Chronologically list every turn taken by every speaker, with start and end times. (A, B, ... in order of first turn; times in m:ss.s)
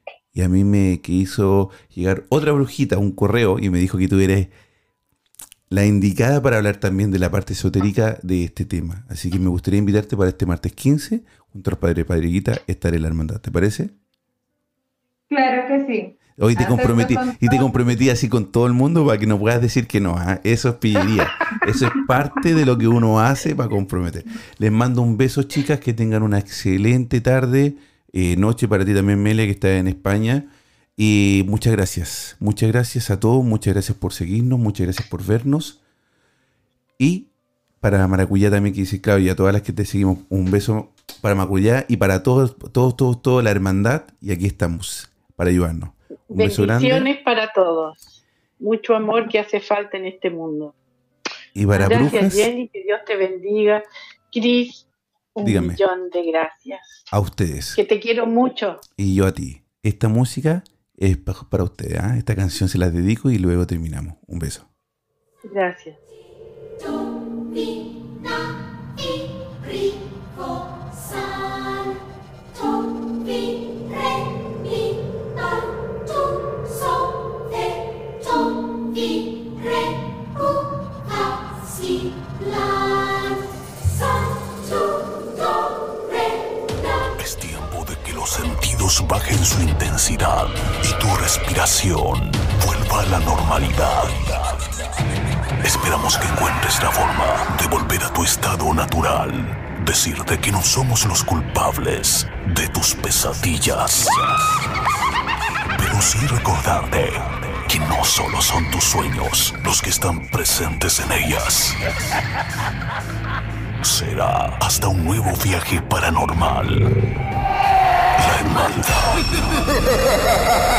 0:00.3-0:04.5 A
0:05.7-0:13.9 A
0:15.3-0:17.7 B
0:16.4-0:35.8 A
0:37.0-0:37.3 A
0:37.8-0:47.1 A
0:46.3-0:50.7 C
0:51.6-0:52.5 A
0:51.7-0:57.1 C
0:55.4-0:55.8 A
0:57.1-0:57.8 A
0:57.8-0:58.8 C
0:59.0-1:04.7 A
1:05.4-1:06.0 C
1:16.6-1:17.0 C
1:27.2-1:34.8 D
1:35.6-1:44.6 D
1:45.8-1:51.9 D
1:53.8-1:57.0 D
1:58.2-1:59.4 D